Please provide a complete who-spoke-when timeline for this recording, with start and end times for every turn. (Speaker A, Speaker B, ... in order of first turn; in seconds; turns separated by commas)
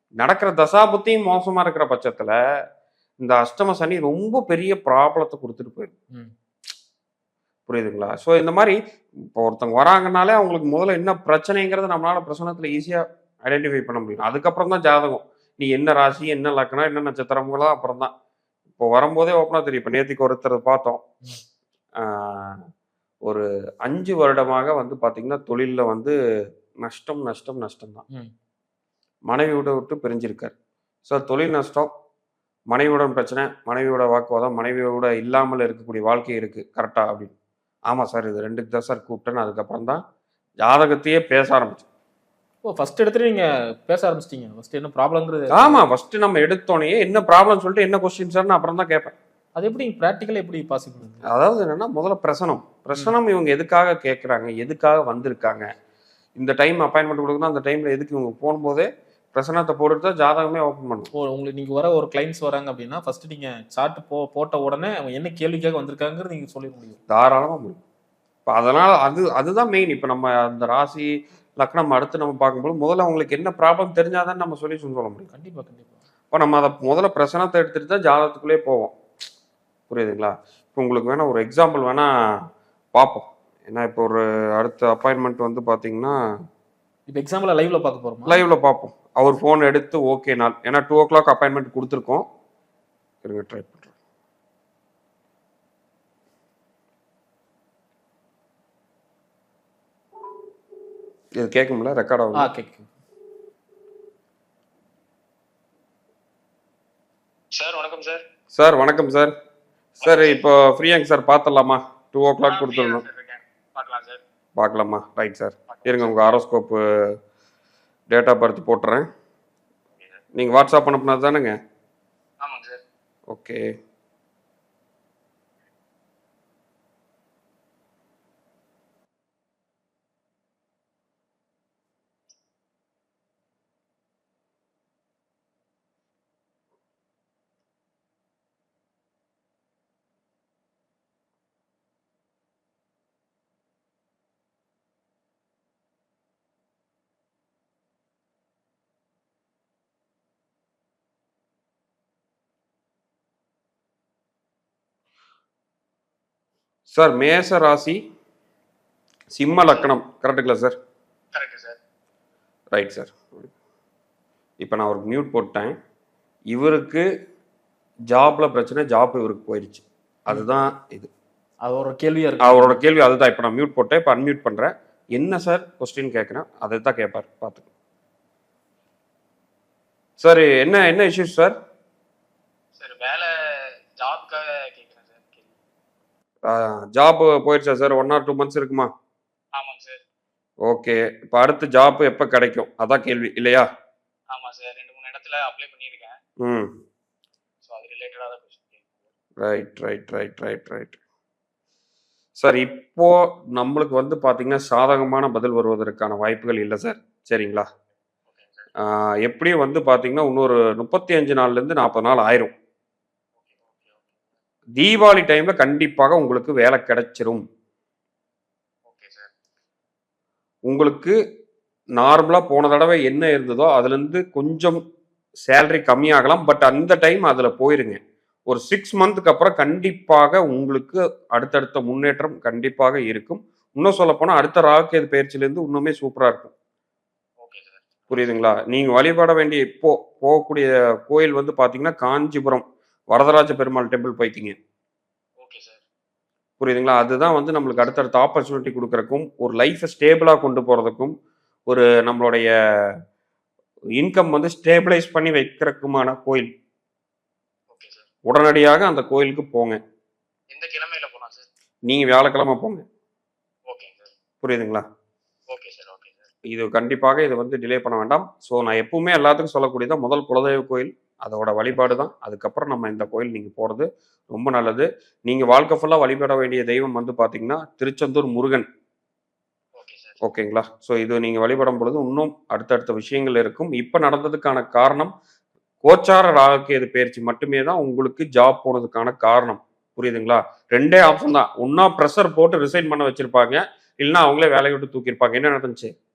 Speaker A: 0.2-2.3, Speaker A: 3.2-5.9, Speaker A: 7.7-18.1, Speaker A: 18.8-21.0, Speaker A: 22.0-22.6, Speaker A: 23.3-26.1, Speaker A: 26.8-28.1, Speaker A: 29.3-30.5, Speaker A: 31.1-31.9, Speaker A: 32.7-37.3, Speaker A: 37.9-40.0, Speaker A: 40.6-41.9, Speaker B: 42.6-45.9, Speaker A: 45.5-49.1, Speaker B: 49.6-51.3, Speaker A: 51.2-55.7, Speaker A: 56.4-61.1, Speaker B: 61.1-67.0, Speaker A: 67.1-67.8, Speaker A: 68.5-75.3, Speaker B: 75.3-76.0, Speaker A: 76.3-78.9, Speaker A: 79.9-82.1, Speaker A: 82.9-86.2, Speaker B: 87.1-88.4, Speaker A: 88.2-92.2, Speaker A: 93.2-93.9, Speaker A: 101.4-102.5, Speaker B: 102.3-102.9, Speaker C: 107.5-108.2, Speaker A: 108.5-109.3, Speaker A: 110.0-113.0, Speaker C: 110.0-110.4, Speaker C: 112.5-114.2, Speaker A: 114.6-116.8, Speaker C: 115.7-116.2, Speaker A: 118.1-119.1, Speaker A: 120.3-121.6, Speaker C: 122.4-122.8, Speaker A: 123.3-123.7, Speaker A: 156.9-158.0, Speaker A: 159.3-160.7, Speaker C: 159.5-159.9, Speaker C: 161.3-161.8, Speaker A: 162.7-163.5, Speaker A: 164.6-165.8, Speaker A: 166.5-167.1, Speaker A: 168.1-171.1, Speaker B: 171.7-172.8, Speaker A: 172.4-177.7, Speaker A: 180.2-181.6, Speaker C: 182.8-183.3, Speaker C: 183.9-185.5, Speaker A: 186.4-188.9, Speaker C: 189.6-190.0, Speaker A: 190.7-193.7, Speaker C: 194.3-196.2, Speaker A: 196.4-196.7, Speaker C: 197.6-199.1, Speaker A: 199.4-201.0, Speaker A: 202.4-207.7, Speaker C: 208.3-208.7, Speaker A: 208.8-212.5, Speaker C: 213.4-214.2, Speaker A: 214.8-217.4, Speaker C: 218.9-219.3, Speaker A: 220.7-221.2, Speaker A: 222.0-224.8, Speaker A: 225.5-236.5, Speaker C: 237.4-238.4, Speaker A: 238.1-244.6, Speaker C: 245.4-245.8, Speaker A: 246.6-251.2, Speaker A: 251.7-252.5, Speaker A: 254.0-256.5, Speaker C: 257.7-258.1, Speaker A: 258.2-259.8, Speaker C: 260.5-261.5, Speaker A: 261.9-262.8, Speaker C: 263.7-264.1, Speaker A: 264.4-264.9, Speaker C: 265.5-266.3, Speaker A: 266.4-278.7, Speaker C: 279.8-280.2, Speaker A: 280.2-285.1, Speaker A: 285.8-295.9, Speaker C: 291.0-291.4